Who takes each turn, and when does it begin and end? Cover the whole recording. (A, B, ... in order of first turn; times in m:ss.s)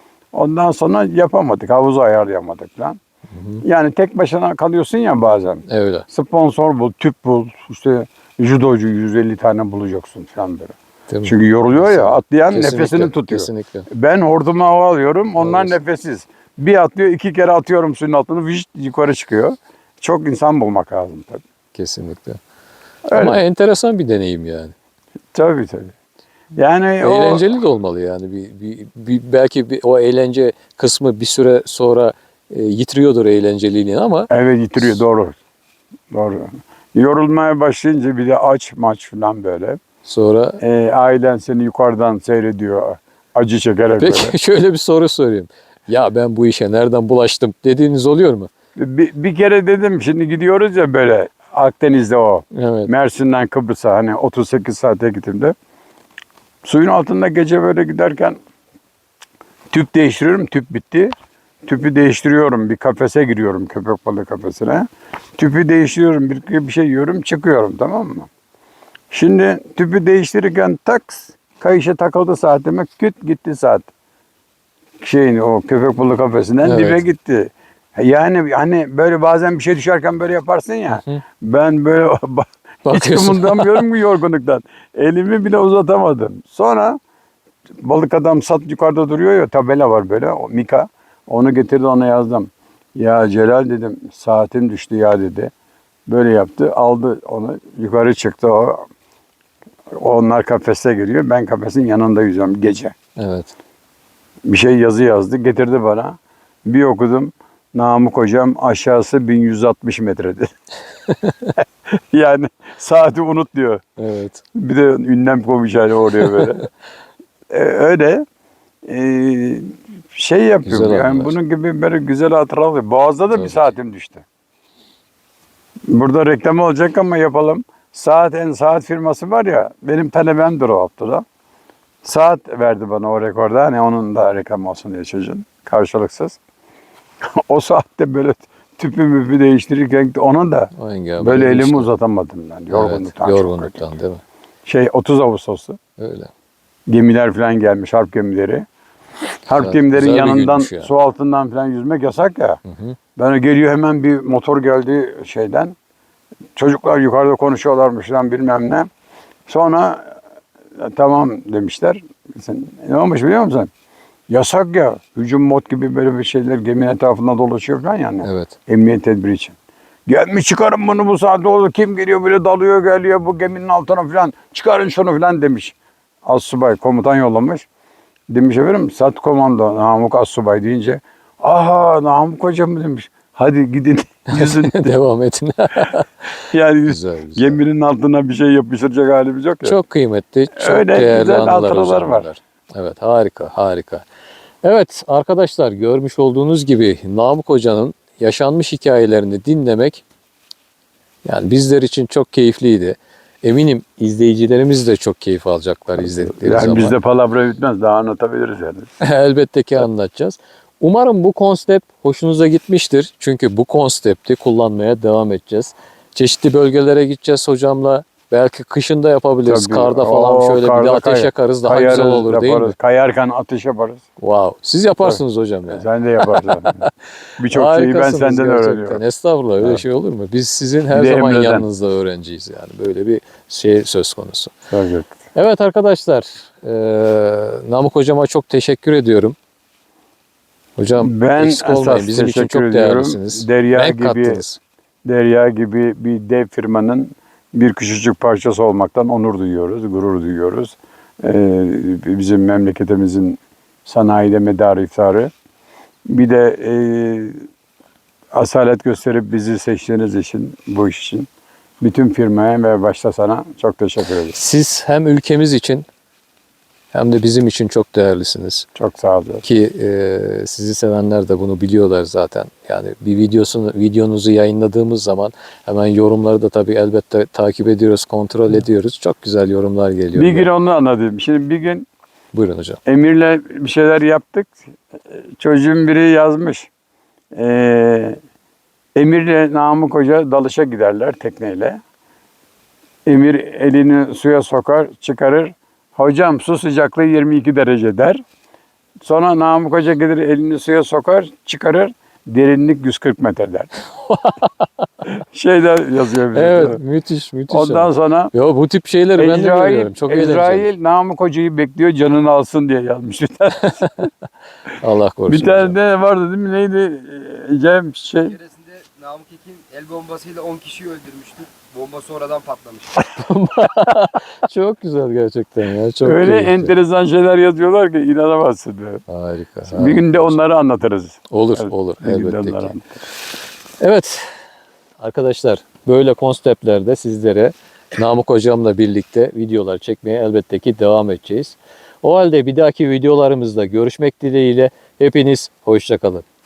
0:00.3-0:03.0 A
0:03.3-0:03.6 B
0:03.6-0:21.4 A
0:05.7-0:06.1 B
0:11.1-0:13.9 B
0:15.4-0:15.8 B
0:21.8-0:22.4 B
0:23.1-0:23.4 A
0:23.1-0:24.7 B
0:25.3-0:25.9 A
0:26.6-0:27.4 A
0:27.0-0:34.3 B
0:34.3-0:35.4 A
0:36.1-0:39.8 A
0:40.0-0:40.6 B
0:40.6-0:44.3 A
0:44.0-0:48.5 B
0:48.8-0:55.6 A
0:52.5-0:52.9 B
0:56.6-0:58.4 A
0:59.7-1:01.1 A
1:01.6-1:08.3 A
1:09.1-1:13.9 A
1:15.0-1:27.0 A
1:16.6-1:17.0 B
1:22.9-1:23.9 B
1:27.8-1:35.5 A
1:36.1-1:38.8 A
1:39.9-1:43.0 A
1:43.2-1:43.5 B
1:44.5-1:50.5 A
1:51.1-1:51.5 B
1:51.9-1:53.8 A
1:54.0-1:54.4 B
1:54.5-1:56.7 A
1:56.2-1:56.6 B
1:57.5-1:58.2 A
1:58.8-2:04.2 A
2:00.7-2:01.3 B
2:05.9-2:11.2 A
2:12.0-2:16.4 A
2:17.2-2:24.0 A
2:20.7-2:21.9 B
2:22.7-2:24.2 B
2:24.7-2:25.8 A
2:26.0-2:26.3 B
2:26.9-2:28.7 A
2:29.5-2:32.6 A
2:29.6-2:30.9 B
2:32.7-2:33.0 B
2:33.2-2:35.8 A
2:36.6-2:38.9 A
2:39.5-2:40.2 A
2:40.8-2:43.7 A
2:44.3-2:49.6 A
2:48.2-2:48.6 B
2:50.1-2:55.7 A
2:56.2-2:57.7 A
2:58.3-3:04.9 A
3:04.3-3:07.6 B
3:06.5-3:09.8 A
3:09.6-3:14.0 B
3:10.5-3:12.3 A
3:14.6-3:20.0 B
3:21.2-3:27.0 B
3:26.0-3:28.9 A
3:29.0-3:42.7 B
3:39.4-3:44.0 A
3:44.2-3:46.9 B
3:45.0-3:46.8 A
3:47.4-3:49.0 A
3:47.4-3:54.5 B
3:50.9-3:51.6 A
3:54.7-3:55.2 A
3:55.3-3:59.4 B
4:00.8-4:04.6 B
4:01.0-4:04.4 A
4:05.0-4:15.3 A
4:16.1-4:17.4 A
4:18.3-4:21.3 A
4:21.8-4:24.4 A
4:24.3-4:25.9 B
4:26.9-4:28.7 B
4:28.8-4:29.4 A
4:29.4-4:40.5 B
4:40.2-4:41.9 A
4:42.3-4:42.8 B
4:42.8-4:44.6 A
4:45.1-4:46.7 A
4:47.3-4:48.2 A
4:49.0-4:51.8 A
4:53.0-4:58.2 A
4:59.0-5:03.7 A
5:04.1-5:04.7 B
5:05.3-5:06.8 A
5:06.3-5:10.7 B
5:07.5-5:08.3 A
5:09.2-5:14.1 A
5:13.6-5:14.1 B
5:14.8-5:15.8 B
5:15.3-5:18.4 A
5:18.2-5:23.1 C
5:23.1-5:26.7 B
5:26.0-5:29.0 A
5:29.1-5:30.4 B
5:29.7-5:32.8 A
5:31.3-5:32.8 B
5:33.8-5:34.3 B
5:35.0-5:46.2 B